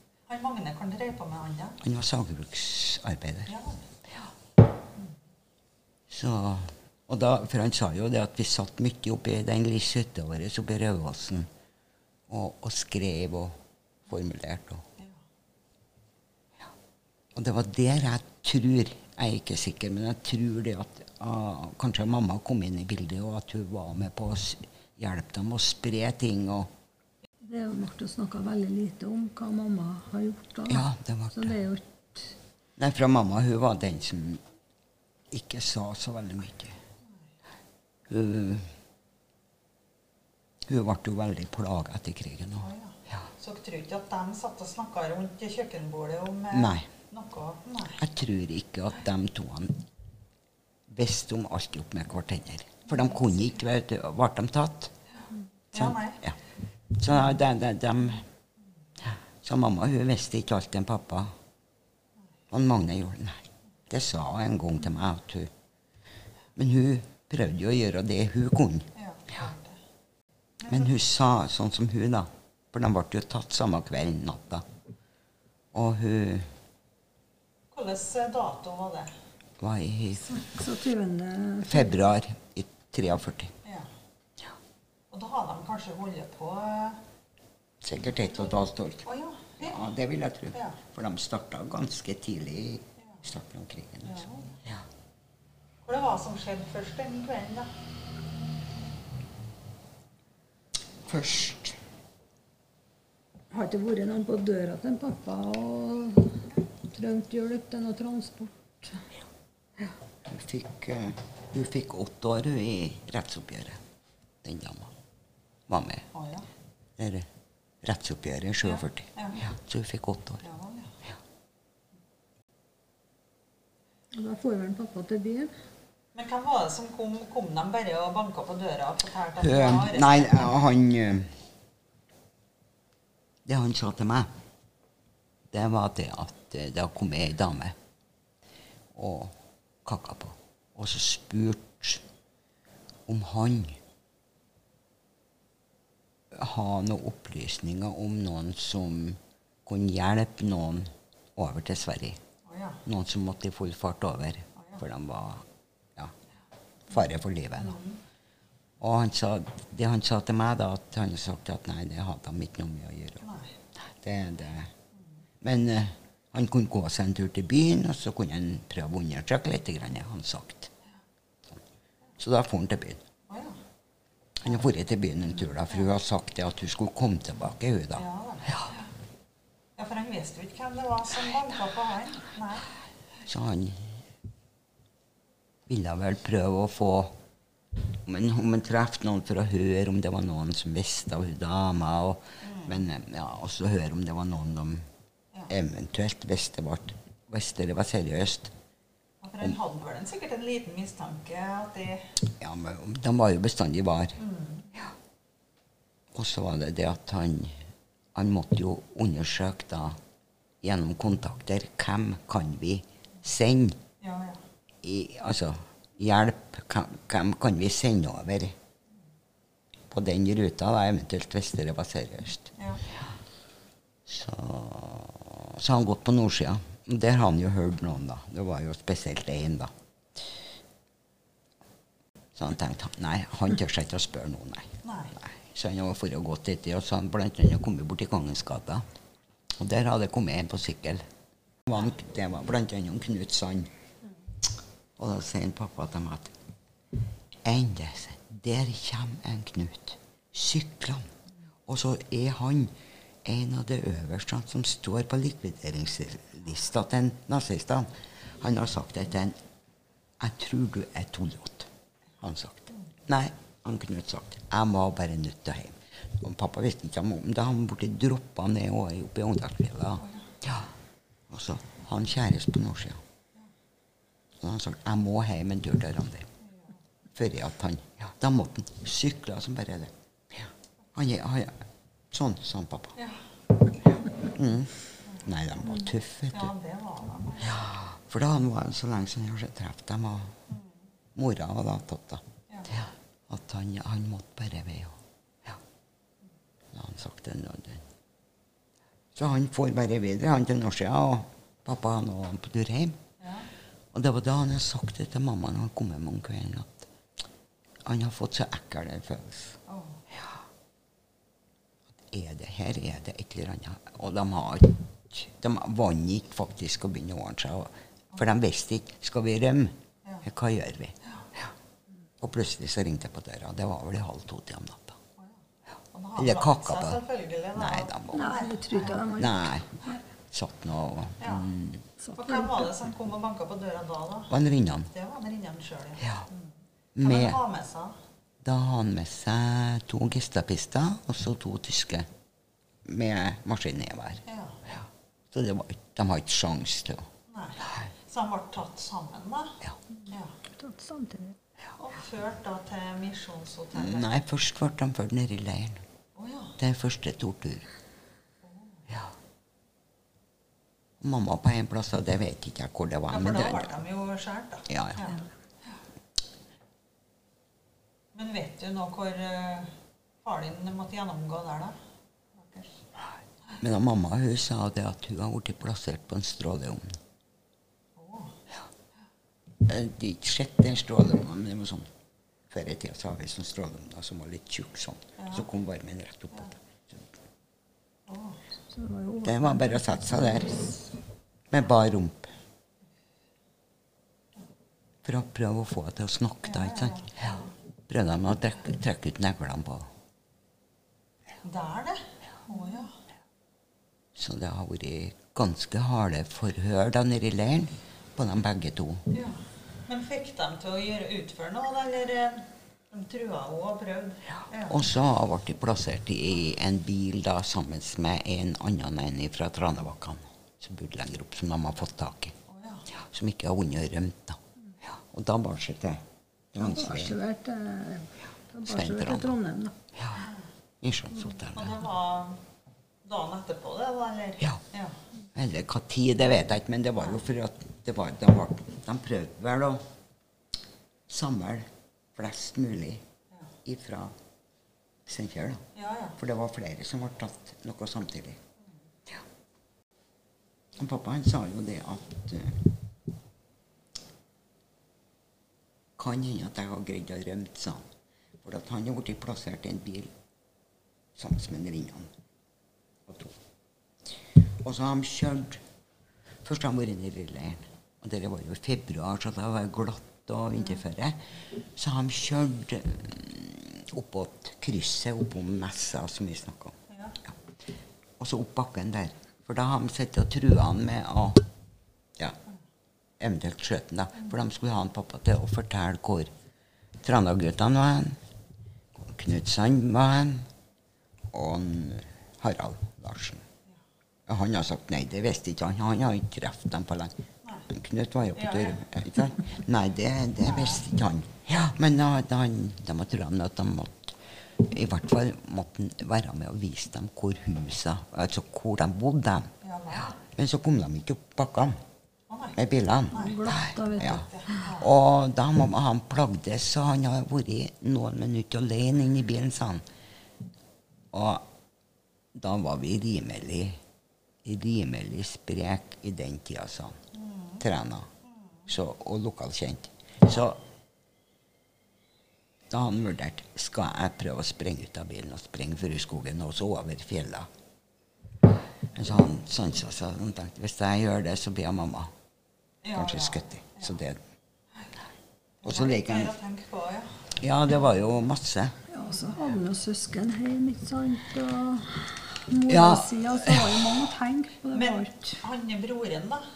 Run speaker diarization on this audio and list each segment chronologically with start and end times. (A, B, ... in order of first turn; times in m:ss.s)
0:00.3-0:01.8 A
0:01.8-0:03.5 B
0:03.5-0:03.8 A
0:06.1-0:11.5 B
0:12.3-0:14.8 B
0:17.3-0:26.7 B
0:27.4-0:32.4 C
0:30.7-0:31.6 B
0:32.8-0:34.4 B
0:35.3-0:36.8 B
0:38.1-0:38.7 B
0:40.7-0:42.7 B
0:42.6-0:48.0 A
0:46.5-0:46.9 B
0:48.0-0:49.8 B
0:50.9-0:54.9 B
0:55.7-0:56.4 B
0:55.7-0:56.2 A
0:56.9-0:58.3 B
0:59.4-1:01.3 B
1:02.5-1:05.5 B
1:06.6-1:08.9 B
1:09.0-1:09.8 A
1:10.6-1:14.6 B
1:15.7-1:16.5 B
1:17.7-1:19.1 A
1:19.6-1:20.4 B
1:20.3-1:22.0 C
1:21.6-1:23.5 B
1:23.6-1:23.9 A
1:25.1-1:27.0 A
1:27.8-1:29.1 B
1:29.0-1:29.8 A
1:29.6-1:34.8 B
1:34.0-1:34.6 A
1:35.8-1:37.7 A
1:41.0-1:41.8 B
1:43.5-1:49.1 C
1:50.2-1:53.8 B
1:54.4-1:54.9 B
1:55.7-1:56.1 B
1:56.1-1:56.5 A
1:57.0-1:57.3 B
1:57.8-2:00.5 B
1:58.7-1:59.4 A
2:00.4-2:00.9 A
2:04.1-2:05.5 C
2:06.1-2:10.5 A
2:09.4-2:11.4 B
2:13.4-2:14.3 B
2:15.5-2:17.8 B
2:18.9-2:22.0 B
2:23.1-2:23.8 B
2:26.3-2:32.2 B
2:32.4-2:32.8 A
2:32.8-2:36.1 B
2:34.6-2:34.8 A
2:36.9-2:37.8 B
2:37.6-2:38.0 A
2:38.8-2:43.2 B
2:43.2-2:43.5 A
2:44.0-2:44.7 B
2:45.4-2:50.7 B
2:52.2-2:53.0 B
2:53.3-2:53.6 A
2:54.4-2:58.0 B
2:58.0-2:58.9 A
2:59.8-3:02.7 A
3:03.2-3:04.0 B
3:05.7-3:07.1 B
3:08.0-3:14.8 B
3:12.4-3:12.8 A
3:15.5-3:18.5 B
3:19.2-3:22.1 A
3:22.2-3:24.2 B
3:24.2-3:24.7 A
3:26.1-3:27.6 B
3:28.1-3:30.0 B
3:30.6-3:33.8 B
3:34.0-3:34.4 A
3:34.8-3:38.6 B
3:39.9-3:42.5 B
3:44.0-3:49.7 B
3:52.4-3:58.8 B
3:54.8-3:55.1 A
3:59.6-4:01.0 B
4:01.6-4:03.7 B
4:05.0-4:06.4 B
4:07.4-4:11.1 B
4:11.7-4:19.3 B
4:20.2-4:30.7 B
4:31.3-4:33.0 B
4:34.4-4:36.3 B
4:37.1-4:39.9 B
4:40.9-4:43.0 B
4:43.0-4:43.2 A
4:44.0-4:46.5 B
4:46.3-4:47.6 A
4:47.4-4:50.4 B
4:51.1-4:52.2 B
4:52.5-4:52.7 A
4:52.8-4:55.0 B
4:56.7-4:57.8 B
4:59.1-5:03.0 B
5:03.2-5:03.5 A
5:03.9-5:06.9 B
5:07.8-5:09.6 B
5:09.7-5:10.0 A
5:12.0-5:20.9 B
5:22.2-5:25.0 B
5:25.2-5:25.4 A
5:25.9-5:29.1 A
5:26.2-5:27.0 B
5:27.5-5:28.3 B
5:28.1-5:30.0 C
5:29.2-5:29.8 B
5:30.3-5:31.8 B
5:31.2-5:31.5 A
5:32.0-5:32.7 C
5:32.2-5:34.4 A
5:34.3-5:34.9 B
5:34.9-5:38.0 A
5:37.0-5:37.4 B
5:38.4-5:42.1 B
5:42.8-5:44.2 B
5:44.3-5:44.6 A
5:45.3-5:47.1 B
5:47.3-5:49.6 A
5:50.1-5:50.3 A
5:50.5-5:51.4 C
5:51.8-5:54.1 A
5:53.7-5:55.8 B
5:56.2-5:56.5 A
5:56.6-5:57.7 B
5:58.4-5:58.8 A
6:01.0-6:03.8 B
6:03.1-6:05.8 A
6:04.7-6:05.2 B
6:08.1-6:11.7 A
6:12.4-6:12.8 A
6:13.6-6:17.0 B
6:18.0-6:18.3 A
6:19.6-6:21.9 B
6:22.5-6:27.1 B
6:25.2-6:25.4 A
6:28.1-6:28.4 A
6:28.7-6:30.8 C
6:29.2-6:30.7 B
6:31.5-6:32.3 B
6:35.0-6:39.9 B
6:36.4-6:37.1 A
6:41.4-6:43.0 A
6:44.1-6:49.1 B
6:49.1-6:54.8 A
6:54.7-7:02.3 B
7:02.5-7:02.8 A
7:02.9-7:07.2 B
7:06.6-7:09.8 C
7:08.7-7:09.3 B
7:10.0-7:10.2 B
7:10.8-7:11.8 B
7:11.5-7:12.4 A
7:13.0-7:15.0 A
7:15.3-7:19.8 B
7:21.1-7:23.0 B
7:23.6-7:24.1 B
7:25.0-7:25.6 B
7:25.7-7:26.2 A
7:26.2-7:28.4 B
7:30.7-7:32.7 B
7:36.0-7:37.9 B
7:38.4-7:40.1 B
7:41.2-7:42.1 B
7:43.0-7:43.4 B
7:44.4-7:45.6 B
7:46.4-7:57.5 B
7:56.9-7:57.2 A
7:58.2-8:01.5 B
8:03.2-8:06.3 B
8:07.0-8:08.2 B
8:09.0-8:10.5 B
8:11.3-8:13.4 B
8:14.3-8:29.5 B
8:18.4-8:18.8 A
8:20.4-8:20.8 A
8:29.6-8:30.1 A
8:30.3-8:31.7 B
8:32.3-8:32.6 A
8:32.5-8:39.8 B
8:33.1-8:34.9 A
8:33.1-8:34.7 C
8:41.1-8:41.4 B
8:42.3-8:43.8 B
8:44.4-8:47.0 B
8:47.1-8:47.6 A
8:47.6-8:48.1 B
8:48.7-8:50.6 B
8:52.7-8:57.5 B
8:58.9-9:02.1 B
9:02.8-9:03.9 A
9:02.9-9:04.2 B
9:05.6-9:07.2 A
9:05.6-9:06.3 B
9:07.3-9:08.8 B
9:08.9-9:15.4 C
9:12.7-9:14.0 B
9:14.7-9:16.5 A